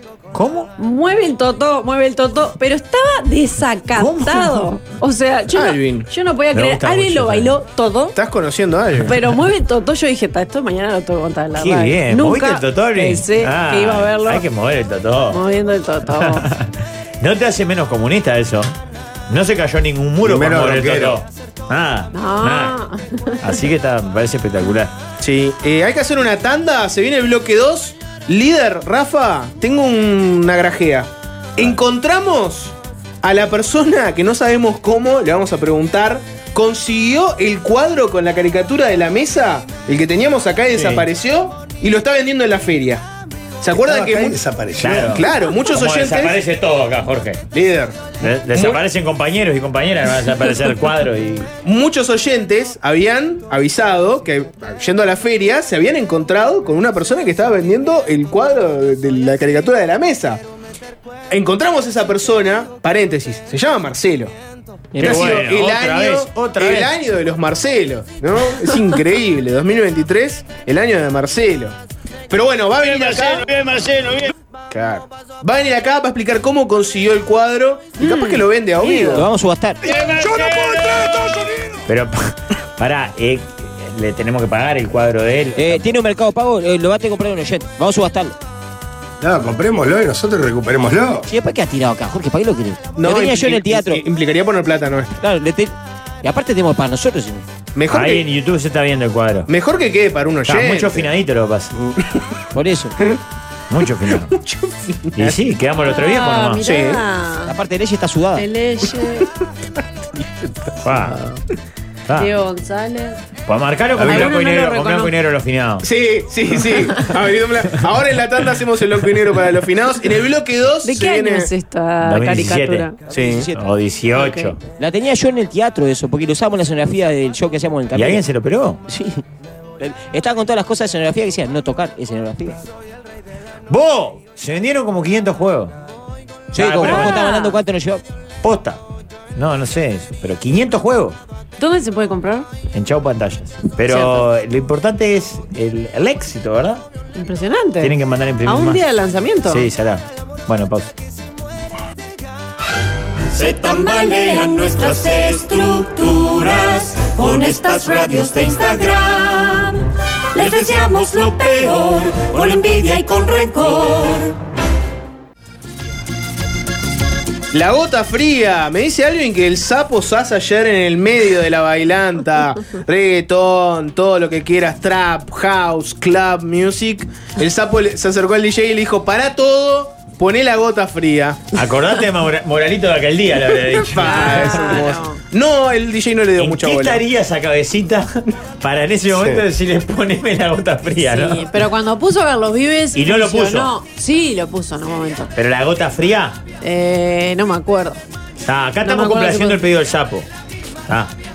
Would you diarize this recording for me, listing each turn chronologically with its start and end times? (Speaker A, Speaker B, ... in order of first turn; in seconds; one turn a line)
Speaker A: 0.3-0.7
Speaker B: 0.8-8.2
Speaker A: 4.0-4.7
Speaker C: 5.5-6.1
Speaker A: 6.5-7.6
Speaker C: 8.2-9.2
Speaker B: 9.1-14.4
Speaker A: 11.6-15.4
Speaker B: 15.3-16.5
Speaker A: 16.1-18.7
Speaker A: 19.3-22.8
Speaker D: 20.2-21.2
Speaker B: 22.1-23.4
Speaker A: 23.4-24.9
Speaker C: 25.2-43.0
Speaker A: 40.7-41.1
Speaker C: 43.6-44.4
Speaker D: 43.7-45.2
Speaker A: 44.8-47.4
Speaker C: 45.0-46.4
Speaker C: 47.5-48.8
Speaker A: 48.2-51.5
Speaker C: 51.6-60.4
Speaker C: 61.3-64.3
Speaker E: 64.9-65.4
Speaker A: 65.0-66.9
Speaker C: 65.0-71.8
Speaker C: 72.3-73.5
Speaker A: 73.0-74.2
Speaker C: 74.7-79.3
Speaker B: 78.0-78.4
Speaker E: 78.9-79.9
Speaker A: 79.9-81.1
Speaker A: 81.9-85.9
Speaker E: 85.6-88.4
Speaker D: 89.2-91.3
Speaker E: 91.3-94.0
Speaker C: 93.0-95.2
Speaker E: 95.2-97.4
Speaker C: 97.8-98.2
Speaker A: 97.9-99.5
Speaker C: 99.5-101.1
Speaker A: 100.5-101.7
Speaker E: 102.5-103.0
Speaker A: 103.7-104.4
Speaker C: 104.3-105.3
Speaker A: 105.2-106.6
Speaker B: 105.8-107.5
Speaker C: 106.6-107.0
Speaker E: 107.5-108.5
Speaker B: 108.4-109.3
Speaker A: 110.8-111.2
Speaker B: 112.2-113.2
Speaker A: 113.5-115.8
Speaker D: 114.0-114.3
Speaker B: 114.0-115.1
Speaker C: 115.8-121.5
Speaker B: 120.8-123.0
Speaker A: 122.0-122.9
Speaker E: 123.1-123.6
Speaker C: 123.1-123.5
Speaker A: 123.5-124.6
Speaker B: 124.2-124.5
Speaker E: 124.8-128.2
Speaker A: 127.9-128.8
Speaker E: 128.9-129.2
Speaker E: 129.8-132.6
Speaker A: 133.7-135.7
Speaker E: 136.5-138.0
Speaker A: 136.6-137.2
Speaker B: 136.8-137.6
Speaker A: 138.4-138.8
Speaker A: 139.3-141.2
Speaker B: 141.6-142.5
Speaker A: 142.7-146.8
Speaker B: 143.9-144.3
Speaker B: 147.2-147.9
Speaker A: 147.8-148.8
Speaker B: 148.4-149.7
Speaker A: 149.5-150.9
Speaker F: 153.3-164.3
Speaker C: 167.5-181.4
Speaker A: 181.5-184.8
Speaker C: 183.8-187.0
Speaker B: 184.0-185.2
Speaker A: 186.4-191.5
Speaker D: 189.1-189.4
Speaker B: 191.1-195.3
Speaker A: 192.9-193.7
Speaker A: 195.3-196.4
Speaker B: 196.6-198.0
Speaker A: 198.4-200.3
Speaker B: 198.8-199.6